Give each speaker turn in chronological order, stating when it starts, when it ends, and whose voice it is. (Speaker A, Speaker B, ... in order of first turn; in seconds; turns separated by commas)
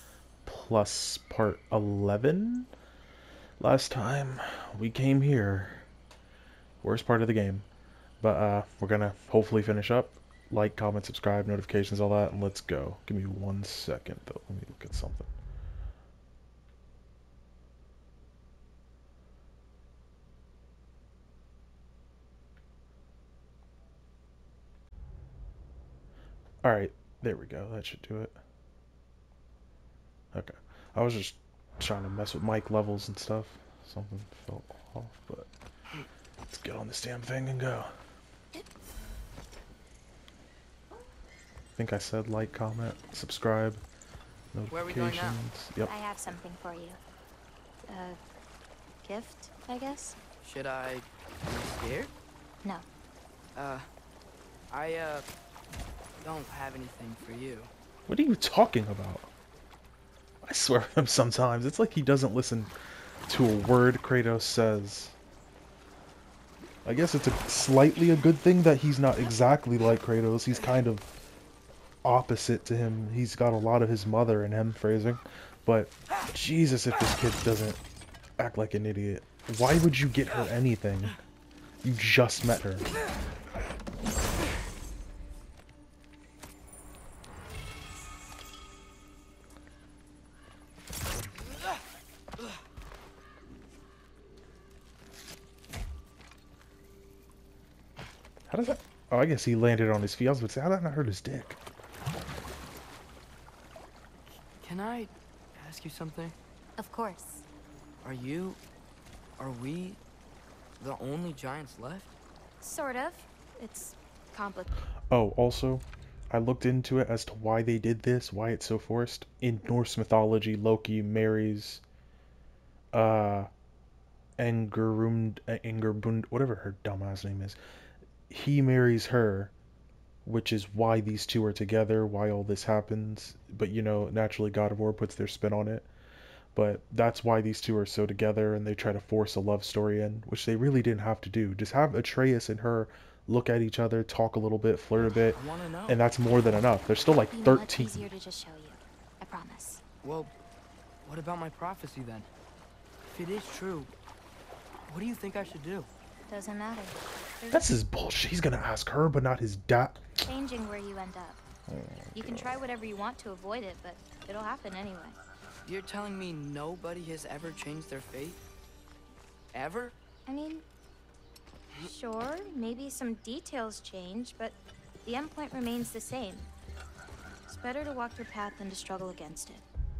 Speaker A: 0.5-2.7, Speaker A: 3.6-5.8, Speaker A: 6.8-7.6, Speaker A: 8.2-15.3, Speaker A: 26.6-28.4, Speaker A: 30.3-35.5, Speaker A: 36.5-37.9, Speaker A: 41.8-43.8, Speaker A: 44.5-45.9, Speaker B: 44.7-45.4, Speaker C: 45.9-47.0, Speaker C: 47.9-48.2, Speaker C: 49.0-50.2, Speaker B: 50.4-52.1, Speaker B: 53.5-53.9, Speaker B: 54.7-55.3, Speaker B: 56.2-57.7, Speaker A: 58.1-59.3, Speaker A: 60.4-62.7, Speaker A: 63.3-65.1, Speaker A: 66.8-71.0, Speaker A: 72.0-77.8, Speaker A: 78.4-81.2, Speaker A: 81.8-82.9, Speaker A: 98.5-101.6, Speaker B: 104.6-106.3, Speaker C: 106.8-107.4, Speaker B: 108.0-108.6, Speaker B: 109.4-110.0, Speaker B: 110.8-112.2, Speaker C: 112.6-114.8, Speaker A: 115.1-121.8, Speaker A: 122.9-123.5, Speaker A: 124.4-127.6, Speaker A: 128.3-129.5, Speaker A: 130.2-135.9, Speaker A: 136.5-148.0, Speaker B: 145.3-146.0, Speaker C: 147.3-149.8, Speaker B: 150.0-150.3, Speaker B: 151.0-152.3, Speaker B: 153.1-153.9, Speaker B: 154.9-155.9, Speaker C: 156.3-157.6, Speaker A: 157.5-160.0, Speaker C: 160.2-161.4, Speaker A: 161.7-162.5, Speaker C: 162.1-165.2, Speaker B: 165.6-168.4, Speaker B: 169.5-169.9, Speaker C: 170.3-170.6, Speaker C: 171.8-176.5, Speaker C: 177.5-179.6